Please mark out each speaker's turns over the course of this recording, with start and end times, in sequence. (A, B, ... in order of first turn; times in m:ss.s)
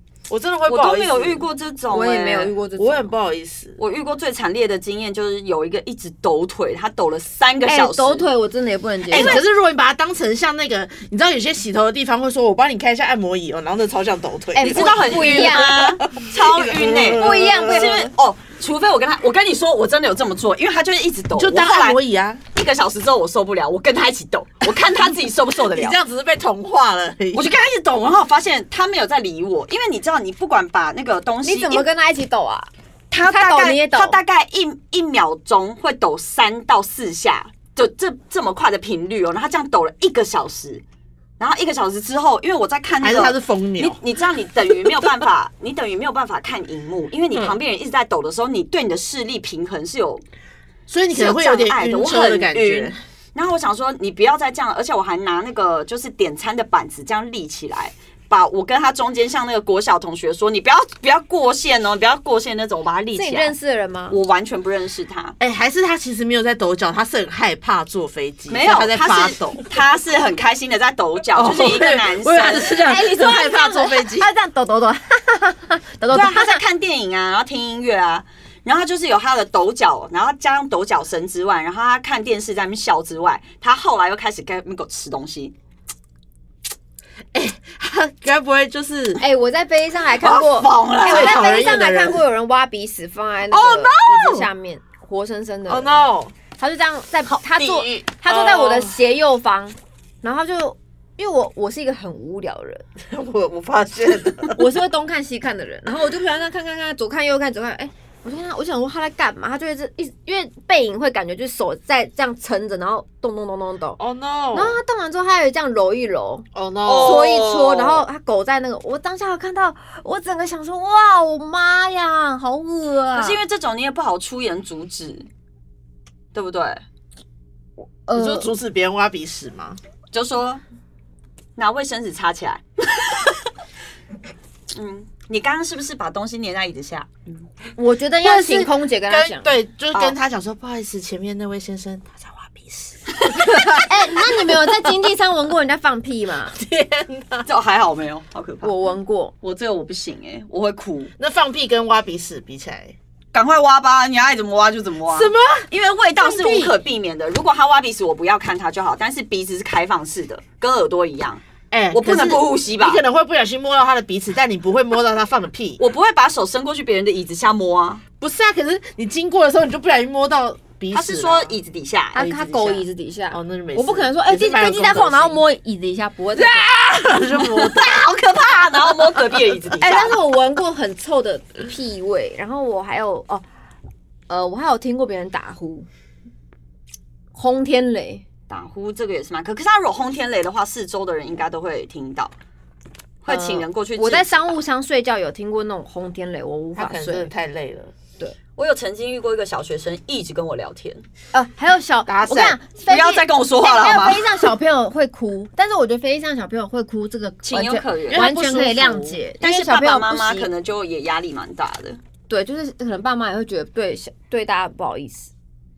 0:00.3-0:01.4 A
0:00.7-0:02.5 B
0:01.9-0:03.1 C
0:02.8-0:03.8 A
0:03.8-0:08.3 B
0:07.7-0:09.4 C
0:09.1-0:18.0 A
0:09.1-0:09.4 B
0:14.5-0:15.9 C
0:14.6-0:22.0 B
0:17.2-0:18.1 C
0:21.4-0:22.4 A
0:22.5-0:26.0 B
0:25.7-0:27.5 A
0:27.3-0:31.9 B
0:31.4-0:32.7 C
0:33.1-0:40.8 B
0:33.2-0:34.2 C
0:41.4-0:50.2 B
0:43.0-0:44.0 A
0:50.9-0:53.0 A
0:51.1-1:03.5 B
1:03.2-1:04.2 C
1:04.1-1:05.4 B
1:05.4-1:09.7 A
1:08.5-1:12.8 B
1:11.3-1:14.3 A
1:12.8-1:16.6 C
1:16.1-1:25.5 B
1:27.3-1:29.2 A
1:29.2-1:36.0 C
1:30.2-1:31.5 B
1:31.0-1:32.2 A
1:33.5-1:34.5 A
1:35.7-1:36.3 A
1:36.6-1:42.8 C
1:37.6-1:38.0 B
1:38.2-1:39.0 A
1:43.0-1:44.6 A
1:44.6-1:54.0 C
1:54.0-1:54.8 A
1:54.5-1:56.5 C
1:56.6-1:57.4 A
1:56.8-1:58.0 B
1:57.0-2:03.4 C
2:03.1-2:05.3 B
2:06.3-2:06.8 B
2:08.0-2:08.5 C
2:08.1-2:09.8 A
2:10.1-2:10.6 B
2:11.6-2:13.4 B
2:14.7-2:17.2 B
2:17.8-2:19.5 C
2:18.2-2:24.9 A
2:23.7-2:26.6 C
2:26.5-2:27.5 A
2:27.5-2:28.7 B
2:28.6-2:29.3 C
2:29.4-2:31.1 B
2:31.2-2:33.0 A
2:33.3-2:43.0 B
2:35.1-2:36.8 A
2:41.7-2:45.8 A
2:45.8-2:48.0 B
2:48.2-2:51.6 A
2:50.9-2:52.3 B
2:52.2-2:56.7 C
2:52.2-2:55.4 A
2:56.4-2:58.2 A
2:57.5-3:00.2 B
2:59.8-3:03.4 C
3:04.3-3:05.9 C
3:07.3-3:08.2 C
3:08.5-3:12.3 B
3:13.2-3:14.6 B
3:13.3-3:17.3 C
3:16.8-3:17.9 A
3:18.6-3:21.0 B
3:21.3-3:30.5 C
3:22.1-3:22.6 A
3:22.9-3:24.5 B
3:27.4-3:32.0 B
3:28.1-3:29.1 A
3:32.3-3:35.3 C